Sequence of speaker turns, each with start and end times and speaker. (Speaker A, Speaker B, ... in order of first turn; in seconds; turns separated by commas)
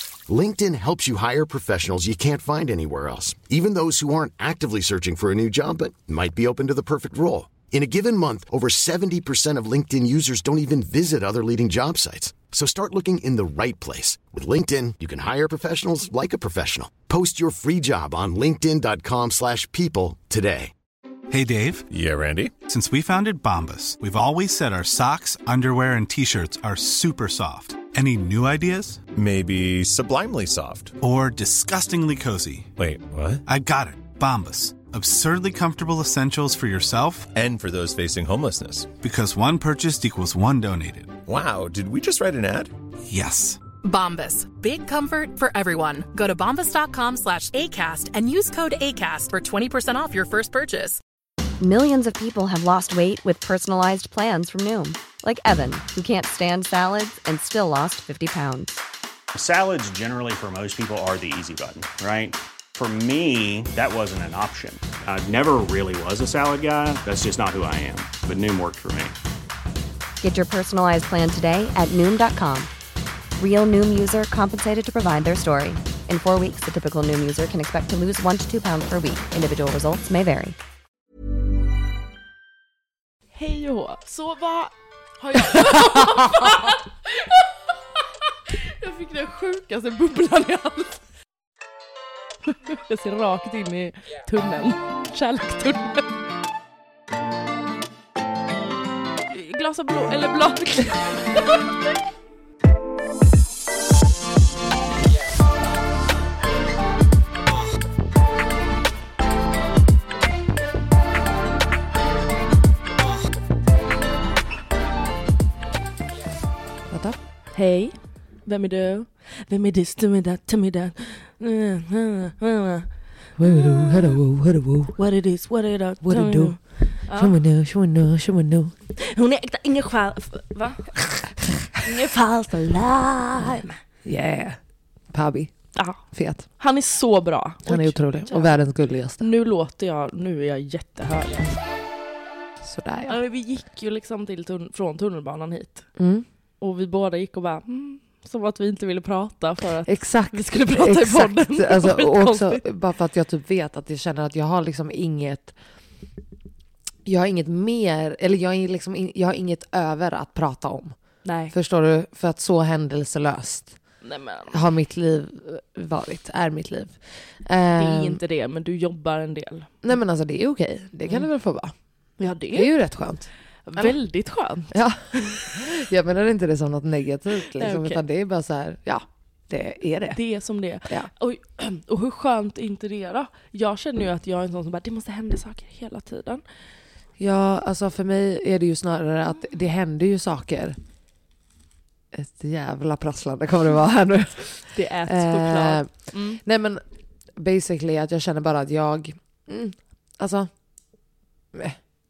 Speaker A: 0.3-20.7, Speaker B: 21.3-21.9, Speaker C: 21.9-22.5, Speaker B: 22.6-29.0, Speaker C: 29.1-30.9, Speaker B: 31.0-32.7, Speaker C: 32.8-33.4, Speaker B: 33.4-37.3, Speaker C: 37.3-38.9, Speaker B: 39.0-41.1, Speaker C: 41.3-42.7, Speaker B: 43.1-43.6, Speaker D: 43.8-51.0, Speaker E: 51.6-58.8, Speaker F: 59.3-69.1, Speaker E: 70.2-72.7, Speaker E: 73.4-80.5, Speaker G: 83.3-91.0, Speaker H: 85.4-86.5, Speaker G: 92.5-96.0, Speaker G: 99.3-101.7, Speaker H: 116.9-117.2, Speaker G: 117.5-124.1, Speaker H: 123.4-125.0, Speaker G: 125.0-127.4, Speaker H: 126.0-128.7, Speaker G: 128.9-131.0, Speaker G: 131.8-133.7, Speaker H: 133.4-134.6, Speaker H: 135.1-135.5, Speaker G: 135.8-136.0, Speaker H: 136.1-136.4, Speaker G: 136.6-138.6, Speaker H: 137.7-139.3, Speaker G: 139.2-141.5, Speaker H: 142.6-143.2, Speaker G: 143.1-145.9, Speaker H: 145.9-146.2, Speaker G: 146.6-152.6, Speaker H: 149.8-155.5, Speaker H: 157.0-160.9, Speaker G: 161.2-161.5, Speaker H: 161.5-163.8, Speaker G: 164.0-164.6, Speaker H: 164.5-168.2, Speaker G: 167.8-169.7, Speaker H: 169.8-171.7, Speaker G: 172.2-172.7, Speaker H: 172.5-174.0, Speaker G: 173.7-175.6, Speaker H: 174.7-180.2, Speaker G: 177.5-178.0, Speaker G: 180.1-186.4, Speaker H: 187.2-190.8, Speaker H: 192.1-196.8, Speaker G: 194.7-196.4, Speaker H: 197.4-200.5, Speaker H: 201.5-201.8